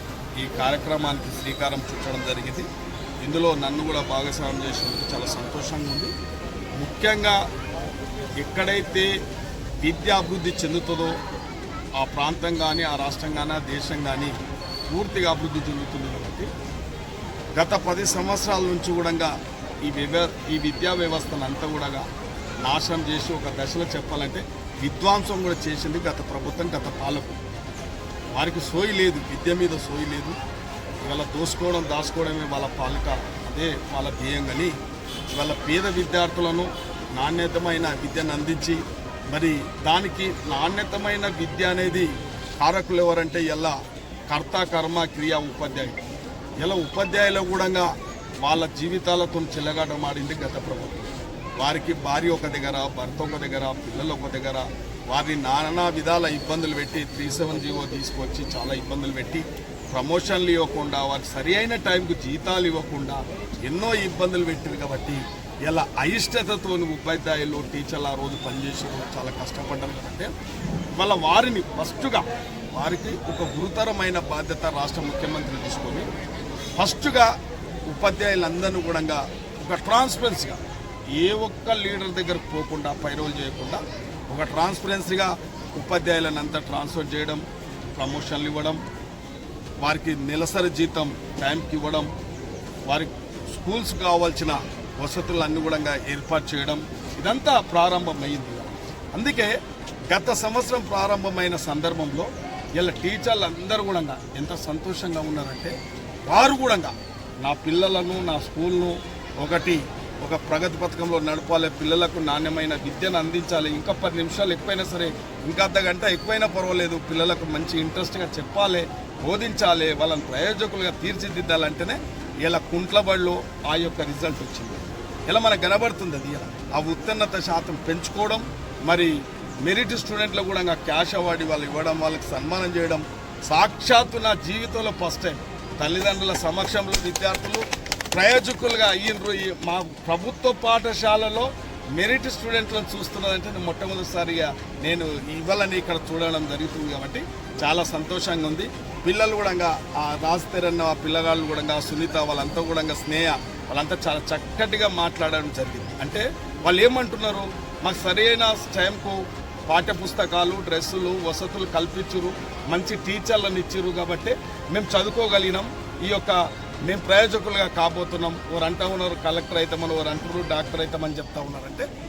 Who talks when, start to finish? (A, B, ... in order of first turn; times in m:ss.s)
0:00.4-0:02.7 A
0:03.2-0:06.1 A
0:06.8-0:07.4 A
0:08.4-0:09.1 A
0:09.8-0:11.2 A
0:12.0-0:14.3 A
0:14.9-0:16.5 A
0:17.6-0:19.3 A
0:19.8-0:22.0 A
0:22.7-0:27.4 A
0:28.3-0:30.4 A
0:31.1-0:34.7 A
0:35.3-0:38.8 A
0:39.3-0:43.8 A
0:44.3-0:46.0 A
0:46.6-0:47.9 A
0:48.4-1:10.3 A
1:11.0-1:16.1 A
1:16.8-1:17.3 A
1:17.9-1:20.6 A
1:21.2-1:27.4 A
1:28.0-1:28.8 A
1:29.8-1:32.1 A
1:32.9-1:39.5 A
1:40.1-1:45.7 A
1:46.3-2:09.1 A
2:09.6-2:39.2 A
2:39.7-2:46.4 A
2:46.9-2:51.9 A